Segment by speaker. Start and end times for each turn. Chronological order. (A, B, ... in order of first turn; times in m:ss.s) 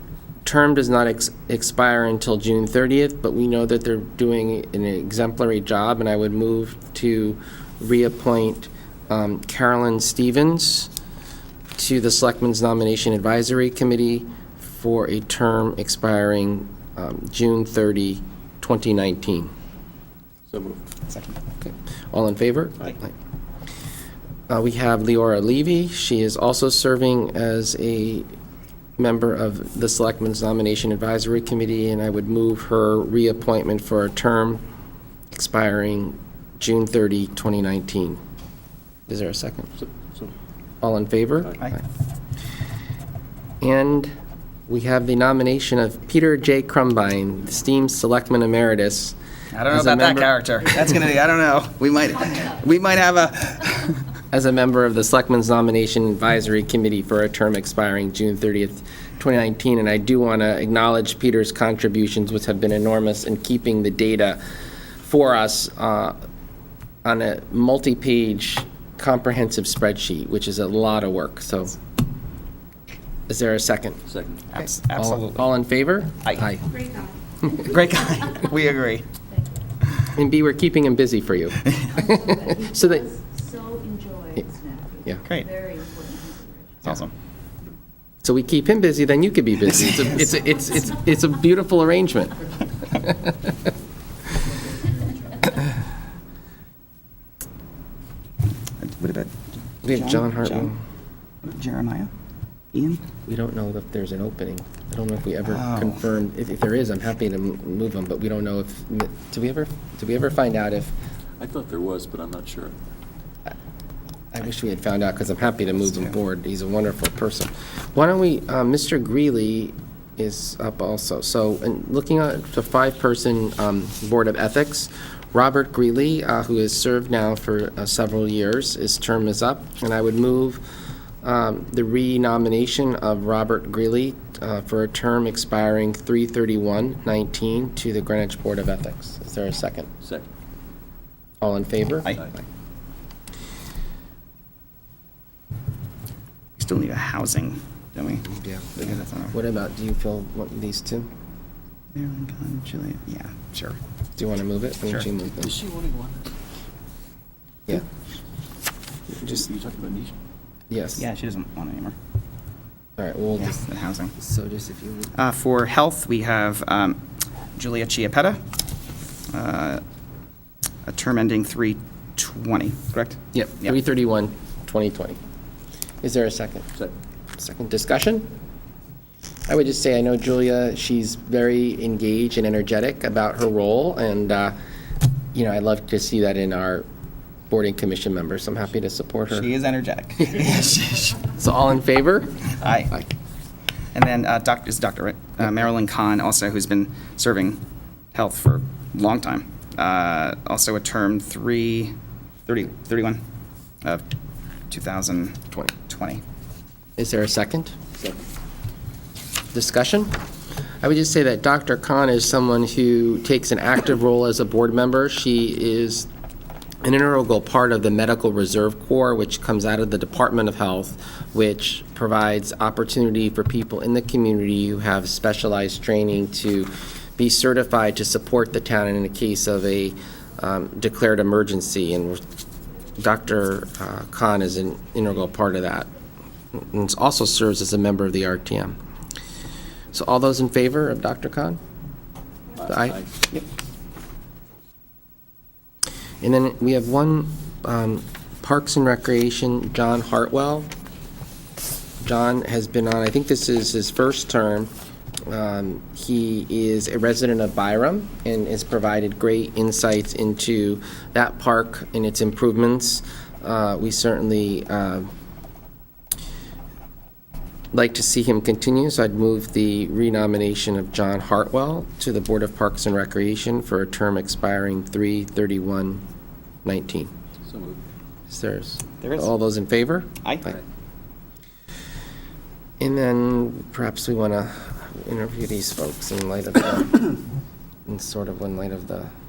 0:00.4-0:10.9 A
0:11.8-0:19.5 A
0:20.5-0:20.8 B
0:21.1-0:21.4 C
0:21.6-0:23.1 A
0:24.5-0:28.3 A
0:29.0-0:34.6 A
0:35.3-0:38.2 A
0:39.1-0:39.7 A
0:40.8-0:41.8 A
0:43.6-0:44.1 A
0:44.7-0:49.2 A
0:49.5-0:54.0 C
0:49.7-0:50.3 A
0:54.3-1:04.4 A
1:05.0-1:06.2 A
1:07.0-1:11.8 A
1:13.3-1:14.0 A
1:14.1-1:14.4 B
1:14.5-1:15.4 C
1:14.6-1:16.7 A
1:16.7-1:18.4 D
1:17.6-1:19.0 C
1:19.3-1:19.6 D
1:20.1-1:21.7 A
1:21.6-1:21.9 C
1:21.9-1:26.9 D
1:22.6-1:23.1 A
1:25.2-1:25.5 C
1:26.8-1:27.1 C
1:28.2-1:32.4 A
1:33.0-1:33.5 A
1:38.8-1:39.3 C
1:39.8-1:40.7 C
1:39.8-1:40.8 A
1:41.4-1:42.1 C
1:42.7-1:43.0 C
1:43.3-1:50.9 A
1:45.5-1:46.0 C
1:51.4-1:52.8 B
1:54.3-2:10.6 A
2:11.2-2:19.9 A
2:21.4-2:22.1 A
2:26.6-2:29.4 C
2:28.3-2:31.1 A
2:31.9-2:33.8 C
2:34.2-2:35.6 A
2:35.4-2:36.2 B
2:39.2-2:39.4 A
2:39.3-2:40.2 B
2:40.7-2:41.0 A
2:41.0-2:42.0 C
2:43.0-2:43.6 A
2:43.4-2:44.1 C
2:44.2-2:45.1 A
2:45.1-2:47.0 C
2:47.6-2:48.4 C
2:49.3-2:49.8 C
2:50.9-2:53.8 C
2:53.3-2:55.2 A
2:56.0-2:56.7 A
2:57.4-2:58.3 A
2:59.5-3:04.6 A
3:05.3-3:06.9 A
3:07.5-3:09.5 A
3:09.3-3:11.3 C
3:11.4-3:13.1 A
3:12.6-3:12.9 C
3:13.9-3:17.6 C
3:18.1-3:21.9 C
3:22.5-3:23.2 C
3:24.7-3:26.2 C
3:27.0-3:27.8 A
3:29.5-3:30.1 A
3:30.8-3:36.1 A
3:36.8-3:52.2 A
3:53.0-3:55.9 A
3:56.5-3:58.8 A
3:59.9-4:01.6 A
4:02.6-4:03.1 B
4:02.6-4:03.0 A
4:06.2-4:10.7 A
4:12.0-4:14.7 A
4:15.3-4:25.1 A
4:27.7-4:36.0 A
4:36.6-4:37.1 A
4:37.5-4:37.8 B
4:38.3-4:40.6 A
4:39.0-4:39.3 C
4:42.8-4:47.1 A
4:47.9-4:49.1 A